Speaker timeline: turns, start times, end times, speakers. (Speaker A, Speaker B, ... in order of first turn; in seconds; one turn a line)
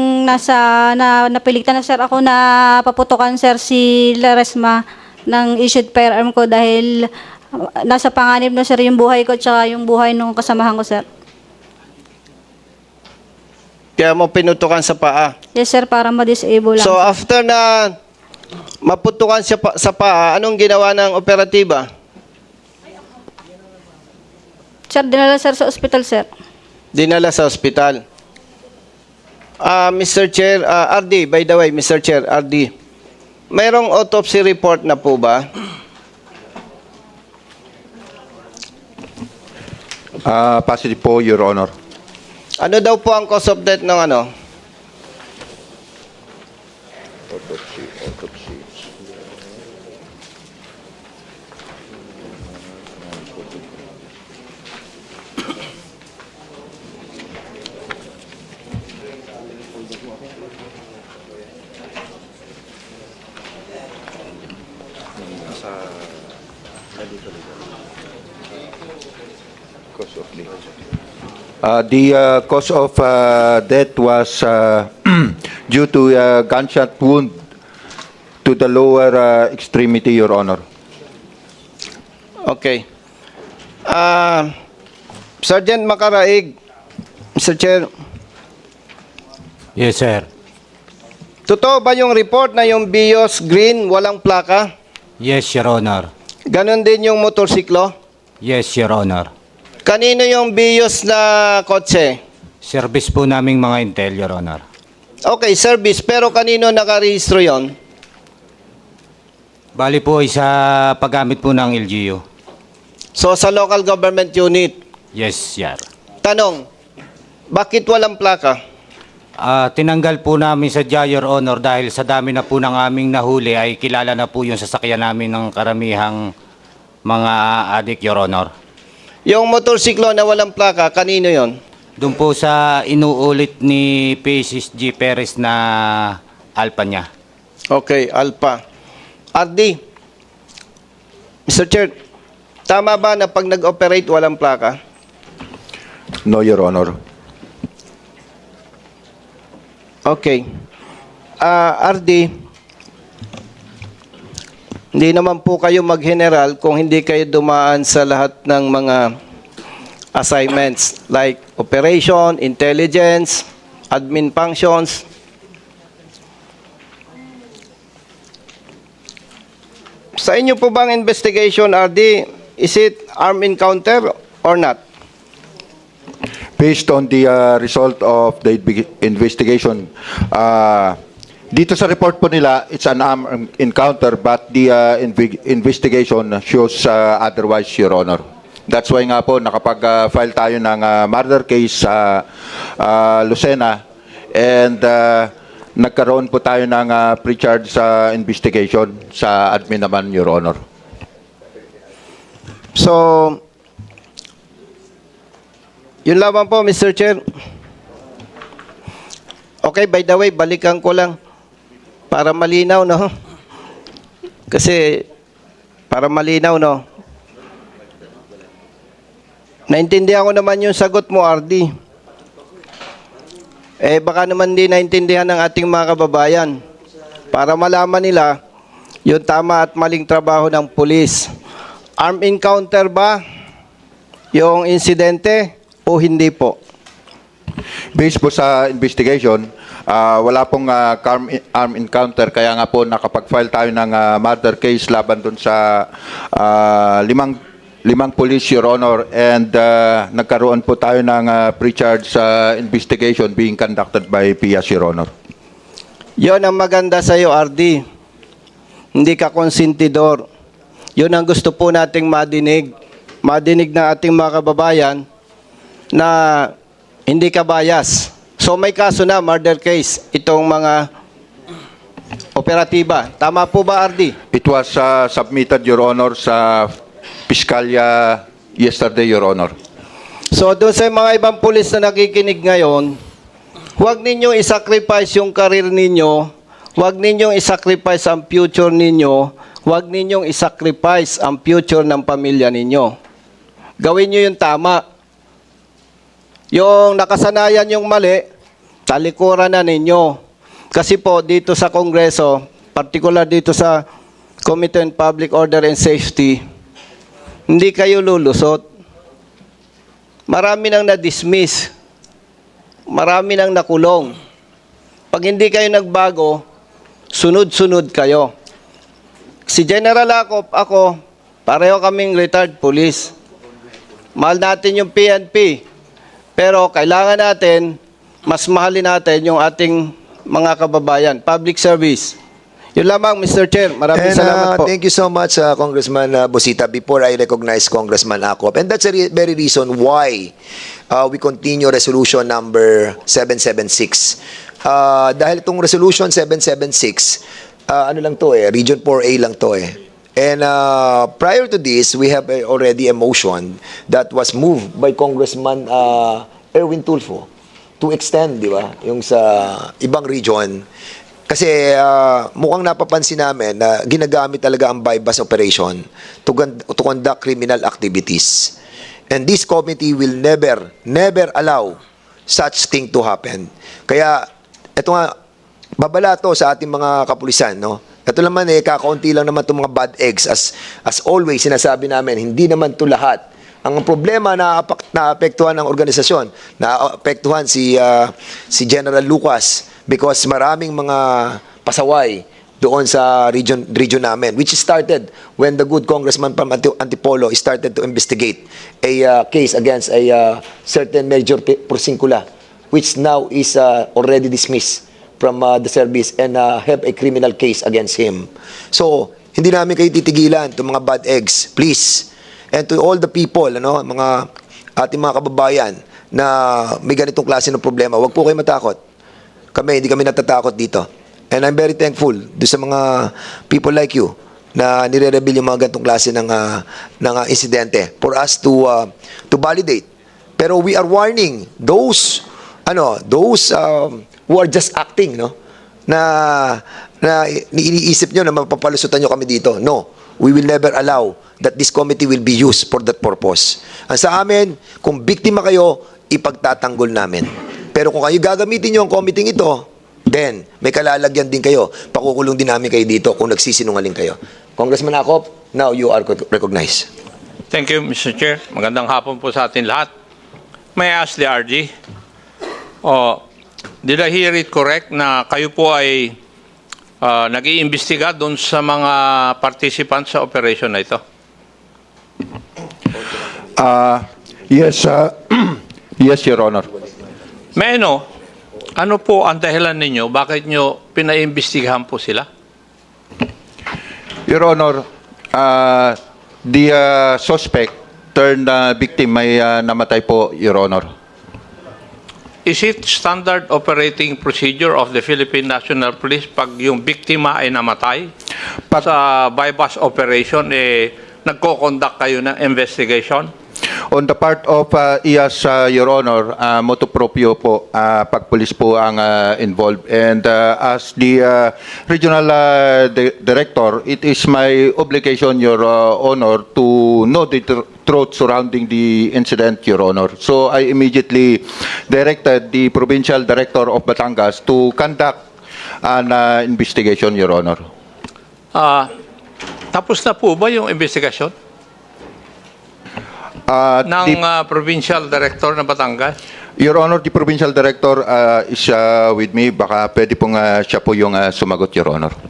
Speaker A: 0.2-11.0
Speaker B: 14.0-15.3
Speaker A: 15.5-17.0
Speaker B: 16.8-17.9
Speaker B: 18.8-21.9
Speaker A: 24.9-26.3
Speaker B: 26.9-28.0
Speaker B: 29.6-32.7
Speaker B: 33.5-35.5
Speaker C: 40.2-41.7
Speaker B: 42.6-44.3
Speaker C: 71.6-77.3
Speaker C: 78.4-80.6
Speaker B: 82.5-82.8
Speaker B: 83.9-84.5
Speaker B: 85.4-86.5
Speaker B: 87.4-87.9
Speaker D: 89.8-90.3
Speaker B: 91.5-94.7
Speaker D: 95.2-96.1
Speaker B: 96.5-97.9
Speaker D: 98.4-99.3
Speaker B: 99.8-102.2
Speaker D: 102.6-104.6
Speaker B: 105.2-107.7
Speaker D: 109.7-112.2
Speaker B: 113.2-114.8
Speaker D: 115.1-115.8
Speaker B: 116.2-116.7
Speaker B: 117.5-118.6
Speaker D: 119.4-126.3
Speaker D: 127.0-128.5
Speaker B: 129.2-131.6
Speaker D: 132.0-137.1
Speaker B: 137.7-138.6
Speaker B: 139.3-139.8
Speaker B: 141.5-141.9
Speaker B: 142.7-144.8
Speaker C: 146.2-147.0
Speaker B: 150.1-150.4
Speaker B: 151.4-152.3
Speaker B: 154.9-159.1
Speaker B: 160.1-165.0
Speaker B: 170.2-174.8
Speaker C: 176.6-181.0
Speaker C: 181.5-192.2
Speaker C: 192.8-200.6
Speaker B: 202.7-203.4
Speaker B: 206.0-207.2
Speaker B: 209.6-211.2
Speaker B: 212.1-213.1
Speaker B: 214.5-215.1
Speaker B: 215.9-216.8
Speaker B: 219.7-221.7
Speaker B: 223.8-226.6
Speaker B: 227.3-228.4
Speaker B: 229.1-231.3
Speaker B: 232.0-233.2
Speaker B: 234.3-236.6
Speaker C: 237.9-255.1
Speaker B: 256.2-257.8
Speaker B: 258.9-260.2
Speaker B: 261.0-262.7
Speaker B: 263.2-265.0
Speaker B: 265.9-266.5
Speaker B: 267.1-270.9
Speaker B: 272.3-274.2
Speaker C: 274.3-279.5
Speaker B: 280.3-283.0
Speaker B: 283.8-292.9
Speaker B: 293.8-294.8
Speaker B: 296.5-298.2
Speaker B: 298.9-300.2
Speaker B: 300.7-303.8
Speaker B: 304.4-306.4
Speaker B: 307.5-308.6
Speaker B: 310.3-311.7
Speaker B: 312.9-314.1
Speaker B: 315.1-316.4
Speaker B: 317.1-318.3
Speaker B: 319.5-323.1
Speaker B: 324.2-325.6
Speaker B: 326.4-332.1
Speaker B: 332.8-334.7
Speaker E: 333.9-340.3
Speaker E: 340.9-357.3
Speaker E: 357.8-360.6
Speaker E: 361.3-368.5
Speaker E: 369.1-375.1
Speaker E: 375.8-418.8
Speaker E: 419.5-429.8
Speaker E: 430.4-435.3
Speaker E: 435.9-456.9
Speaker F: 457.5-459.9
Speaker F: 460.7-461.7
Speaker F: 462.8-463.2
Speaker F: 463.8-466.1
Speaker F: 467.0-471.0
Speaker C: 473.6-476.7
Speaker F: 477.6-478.1
Speaker F: 478.8-482.3
Speaker C: 484.3-490.9
Speaker F: 492.4-498.1
Speaker F: 498.8-503.3
Speaker C: 503.9-525.2
Speaker C: 525.8-527.6
Speaker F: 528.5-528.9
Speaker F: 529.7-531.3
Speaker C: 533.5-534.2
Speaker F: 533.8-536.1
Speaker C: 536.6-542.1